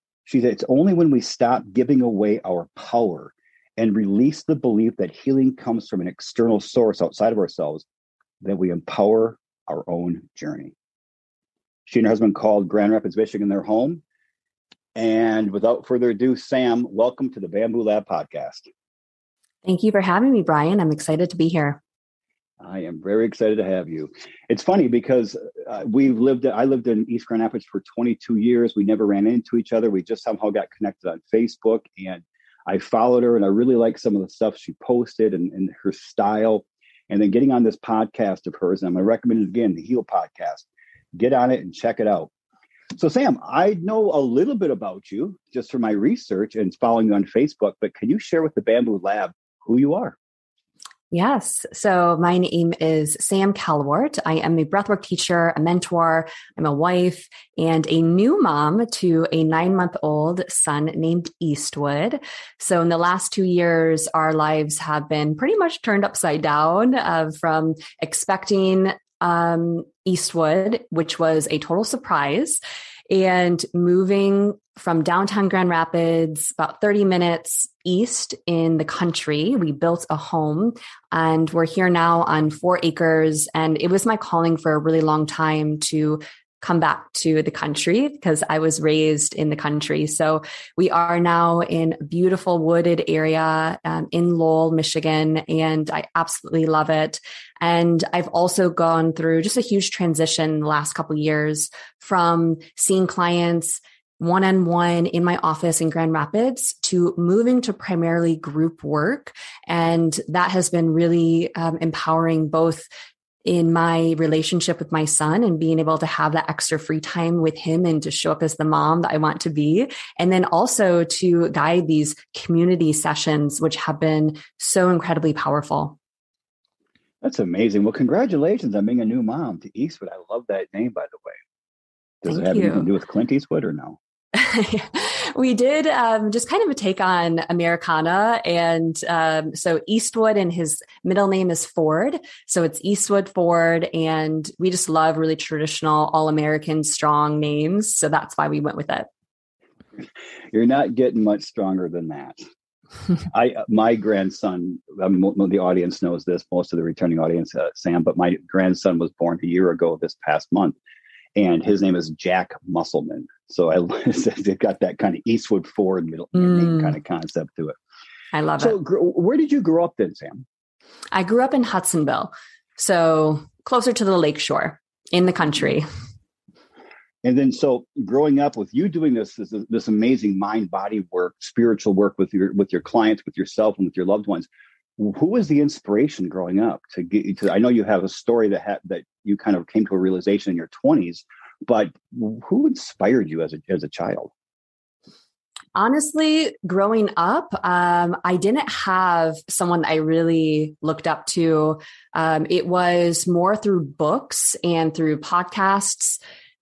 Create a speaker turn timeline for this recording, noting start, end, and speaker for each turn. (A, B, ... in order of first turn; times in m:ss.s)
0:00.3-0:07.8 A
0:08.4-0:10.7 A
0:11.9-0:14.0 A
0:15.0-0:18.7 A
0:19.6-0:21.8 B
0:22.6-0:42.3 A
0:43.0-0:50.2 A
0:51.1-1:52.9 B
1:53.4-2:06.0 B
2:07.2-2:11.4 A
2:12.2-2:14.0 A
2:12.3-2:12.9 B
2:14.3-2:29.1 B
2:30.5-2:32.4 A
2:33.3-2:40.8 A
2:41.4-2:47.8 A
2:46.4-2:46.9 B
2:48.3-2:48.8 B
2:48.6-2:50.4 A
2:51.1-2:55.9 B
2:57.2-3:14.3 A
3:15.8-3:26.2 B